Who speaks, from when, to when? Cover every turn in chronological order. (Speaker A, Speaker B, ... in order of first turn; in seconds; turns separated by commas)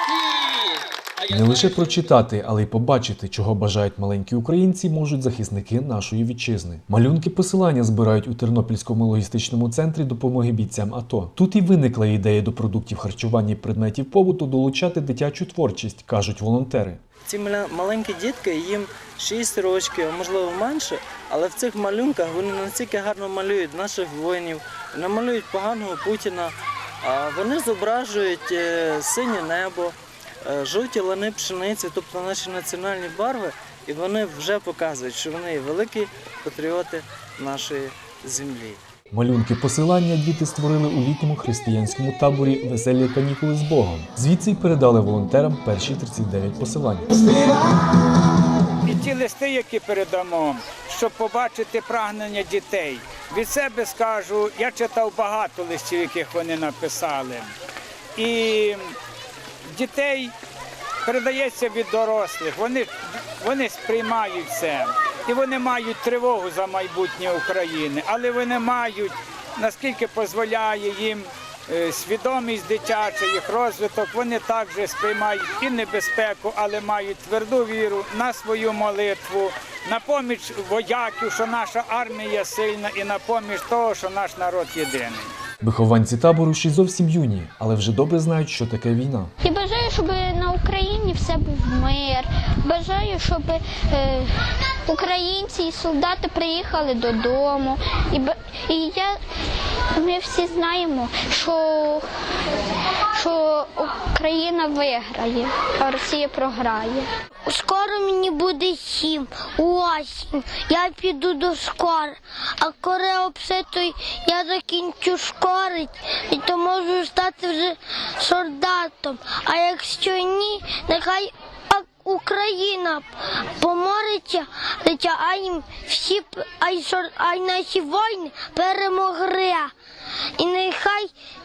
Speaker A: 1.2-17.0, Speaker B: 17.2-38.8, Speaker A: 39.1-47.3, Speaker C: 48.8-57.5, Speaker C: 58.1-58.9, Speaker C: 59.7-60.3, Speaker C: 61.0-85.3, Speaker A: 85.6-89.3, Speaker D: 89.4-94.3, Speaker D: 94.8-99.1, Speaker D: 99.9-102.0, Speaker D: 103.1-107.1, Speaker E: 107.5-129.7, Speaker E: 130.4-131.1